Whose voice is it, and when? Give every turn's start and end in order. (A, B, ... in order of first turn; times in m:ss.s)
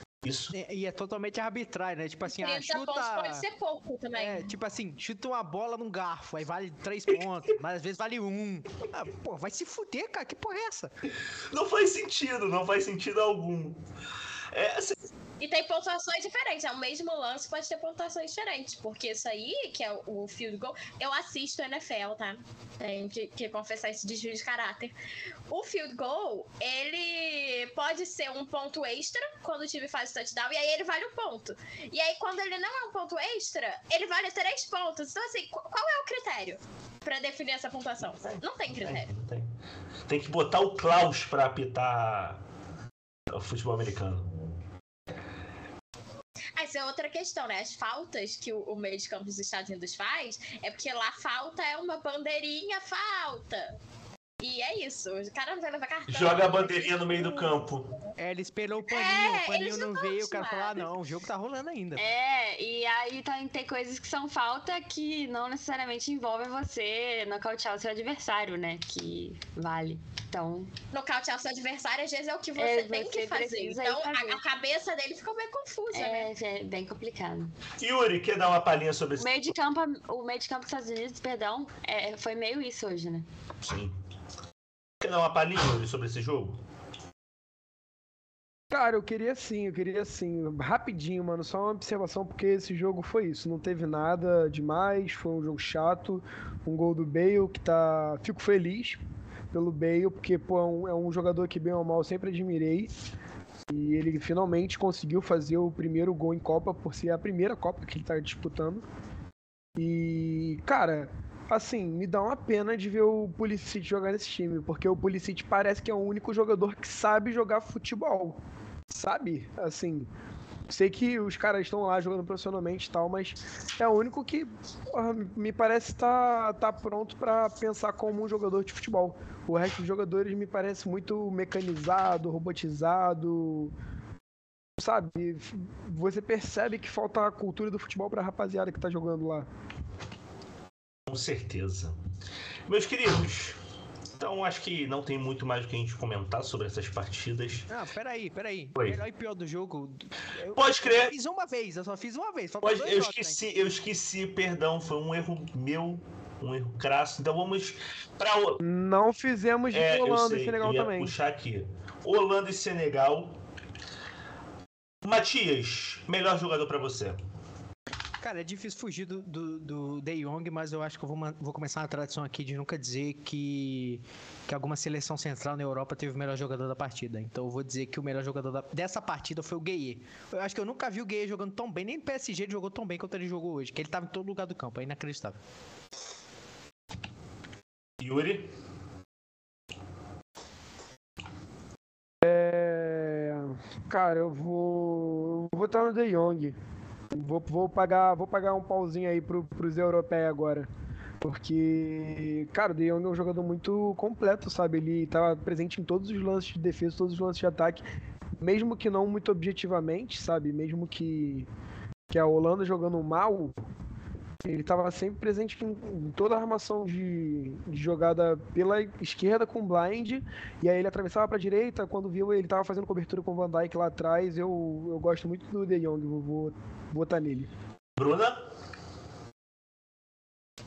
0:00.2-0:00.5 A
0:00.5-0:03.4 B
0:02.2-0:04.5 C
0:04.1-0:10.9 B
0:11.5-0:13.8 A
0:14.5-0:15.0 A
0:15.4-0:24.9 C
0:25.5-0:39.1 C
0:38.2-0:39.5 A
0:40.1-0:42.4 A
0:43.3-0:44.5 A
0:46.6-0:53.7 C
0:54.4-0:57.6 C
0:56.1-0:57.9 A
0:58.2-1:02.0 B
0:58.9-1:00.8 C
1:02.0-1:10.7 D
1:10.9-1:16.3 C
1:12.6-1:14.4 D
1:15.9-1:17.5 D
1:17.8-1:19.3 A
1:19.2-1:23.2 D
1:23.6-1:23.9 A
1:25.0-1:26.6 A
1:28.7-1:42.9 E
1:43.7-1:48.8 E
1:49.8-2:00.1 E
2:00.7-2:13.7 E
2:14.8-2:19.5 E
2:21.1-2:22.0 A
2:22.7-2:23.6 A
2:24.2-2:27.7 A
2:27.7-2:33.4 B
2:30.5-2:31.1 A
2:32.6-2:38.6 A
2:38.6-2:41.2 E
2:39.7-2:43.4 A
2:45.0-2:47.2 A
2:48.2-3:05.4 B
3:08.0-3:08.5 A
3:12.2-3:16.6 E
3:17.1-3:20.7 E
3:21.2-3:27.8 E
3:28.4-3:31.5 E
3:32.1-3:33.5 E
3:34.4-3:47.5 E
3:48.0-3:48.4 A